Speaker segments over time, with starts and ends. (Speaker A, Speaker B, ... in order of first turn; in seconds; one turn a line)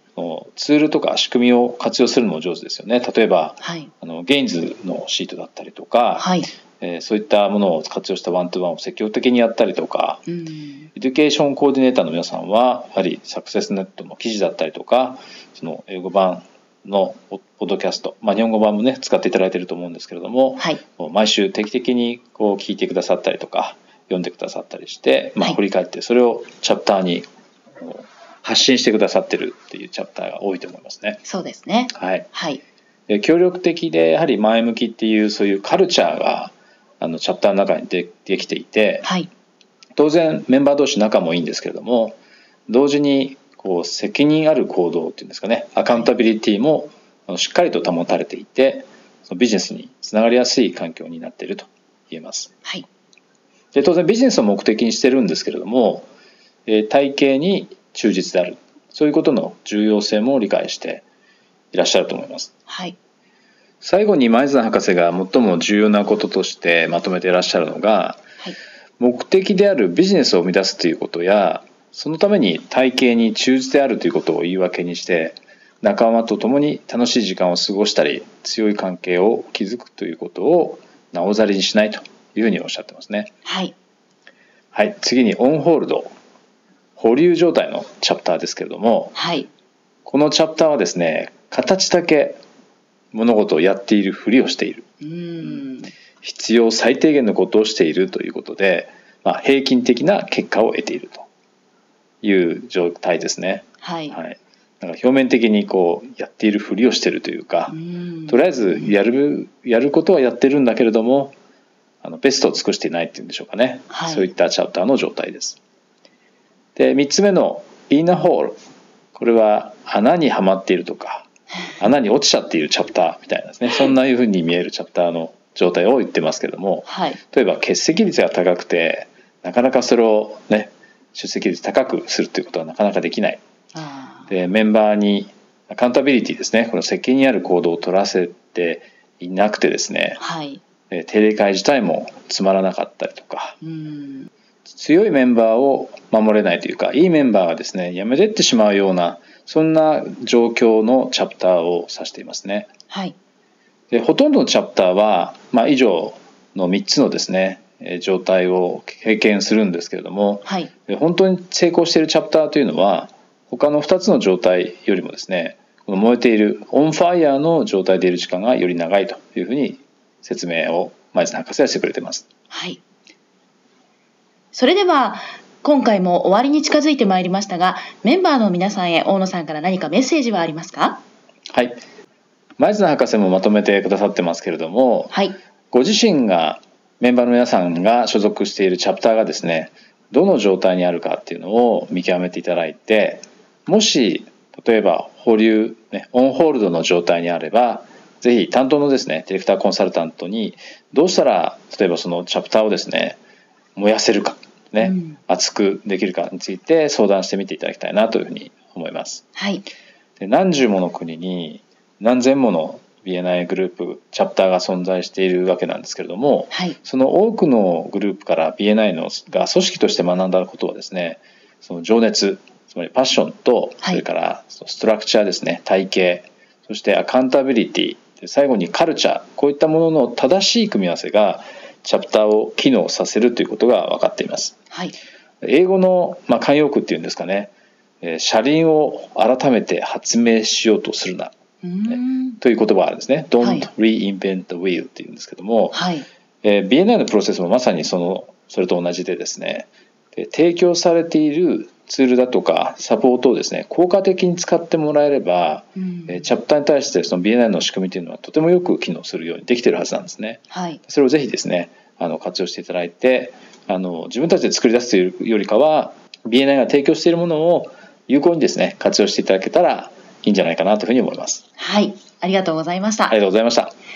Speaker A: 0.1-6.3
Speaker B: 3.6-3.9
Speaker B: 6.2-6.5
Speaker A: 6.8-10.2
Speaker B: 10.3-10.9
Speaker A: 10.9-27.3
Speaker A: 27.8-31.2
Speaker B: 31.2-32.6
Speaker A: 31.9-32.3
Speaker A: 33.1-39.0
Speaker B: 39.0-39.3
Speaker A: 40.0-42.2
Speaker A: 42.7-52.5
Speaker A: 53.7-56.1
Speaker A: 56.6-61.0
Speaker A: 61.7-62.5
Speaker B: 62.7-62.9
Speaker A: 63.8-68.2
Speaker A: 69.0-83.3
Speaker B: 83.4-83.7
Speaker A: 84.7-86.1
Speaker A: 87.0-89.1
Speaker B: 89.1-89.5
Speaker A: 90.0-92.4
Speaker A: 93.1-94.8
Speaker B: 95.0-95.9
Speaker A: 96.2-101.3
Speaker A: 102.2-107.7
Speaker B: 103.8-104.2
Speaker B: 107.7-108.8
Speaker A: 108.3-111.3
Speaker A: 112.0-115.6
Speaker B: 113.9-114.3
Speaker A: 116.8-118.6
Speaker A: 119.1-121.2
Speaker A: 121.8-133.4
Speaker B: 126.8-127.2
Speaker B: 133.7-134.3
Speaker A: 134.3-140.2
Speaker B: 140.2-140.6
Speaker A: 140.9-143.6
Speaker B: 143.6-144.3
Speaker A: 144.7-152.7
Speaker B: 152.9-153.1
Speaker A: 153.9-172.2
Speaker B: 160.4-160.7
Speaker B: 172.5-172.8
Speaker B: 174.5-181.0
Speaker A: 181.5-181.8
Speaker A: 182.6-185.1
Speaker B: 185.1-185.3
Speaker A: 185.7-203.2
Speaker A: 203.8-209.2
Speaker B: 204.8-205.2
Speaker B: 209.3-209.7
Speaker A: 210.2-234.6
Speaker B: 216.5-216.8
Speaker B: 234.7-234.9
Speaker A: 235.4-237.5
Speaker A: 238.0-241.3
Speaker B: 241.6-242.4
Speaker A: 241.9-245.8
Speaker B: 243.4-243.7
Speaker B: 245.7-246.1
Speaker A: 246.4-271.4
Speaker B: 255.8-256.2
Speaker B: 260.5-260.8
Speaker B: 271.6-273.2
Speaker A: 273.1-273.7